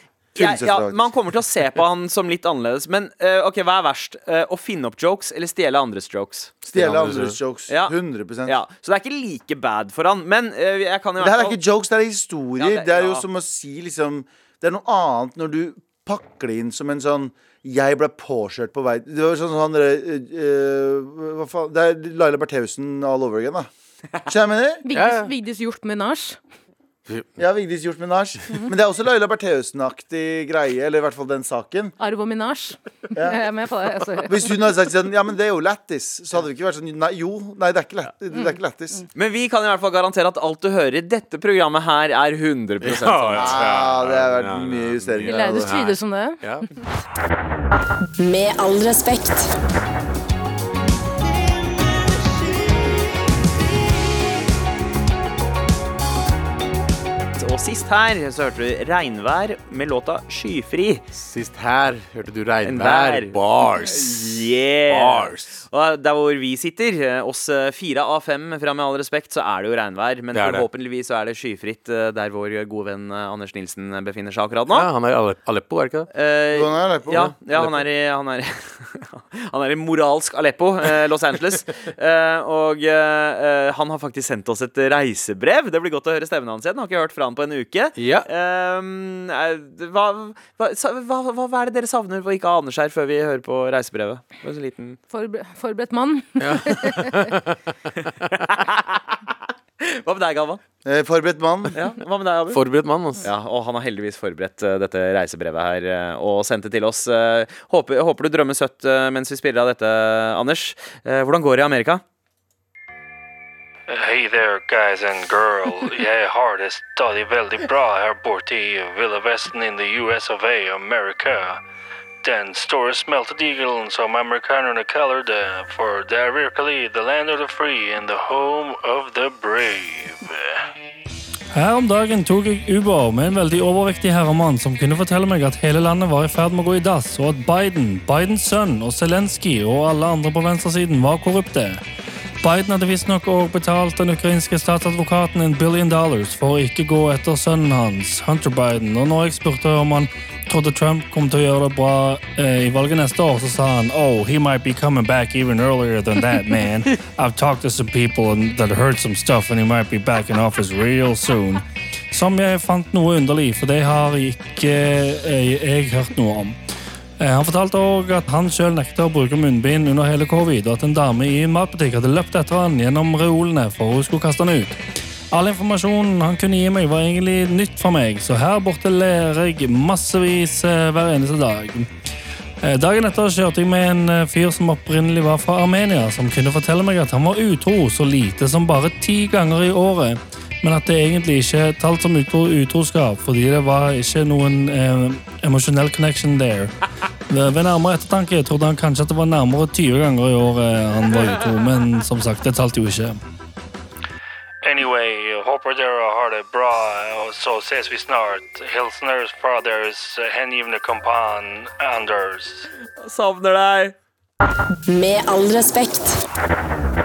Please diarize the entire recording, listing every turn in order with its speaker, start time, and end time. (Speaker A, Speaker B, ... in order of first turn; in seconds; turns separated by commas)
Speaker A: 0.3-6.5, Speaker B: 0.4-1.1, Speaker B: 6.7-8.6, Speaker C: 6.7-7.4, Speaker A: 7.7-7.9, Speaker A: 8.4-11.6, Speaker B: 11.2-23.7, Speaker A: 12.6-13.3, Speaker B: 24.2-24.9, Speaker D: 24.9-26.4, Speaker C: 24.9-25.3, Speaker B: 27.4-31.9, Speaker D: 32.0-34.5, Speaker B: 33.1-33.4, Speaker B: 34.2-39.1, Speaker A: 39.1-43.7, Speaker C: 42.8-46.7, Speaker B: 43.4-45.7, Speaker D: 45.3-46.4, Speaker E: 48.2-49.5, Speaker A: 57.4-61.0, Speaker C: 61.2-65.6, Speaker A: 62.6-74.9, Speaker C: 70.3-70.7, Speaker C: 74.7-76.1, Speaker A: 76.1-95.0, Speaker B: 76.5-77.3, Speaker C: 77.5-77.8, Speaker C: 88.0-88.3, Speaker D: 95.1-97.3, Speaker C: 96.4-97.5, Speaker A: 98.3-99.2, Speaker A: 99.8-100.6, Speaker B: 100.8-101.8, Speaker A: 101.8-102.6, Speaker C: 102.5-103.3, Speaker A: 103.2-112.0, Speaker F: 113.9-121.6, Speaker F: 122.2-130.7, Speaker G: 131.5-141.8, Speaker G: 142.4-166.6, Speaker G: 167.2-174.8, Speaker G: 175.3-181.9, Speaker G: 182.6-196.7, Speaker G: 197.3-203.2, Speaker F: 204.6-212.7, Speaker A: 213.0-213.9, Speaker E: 214.9-216.2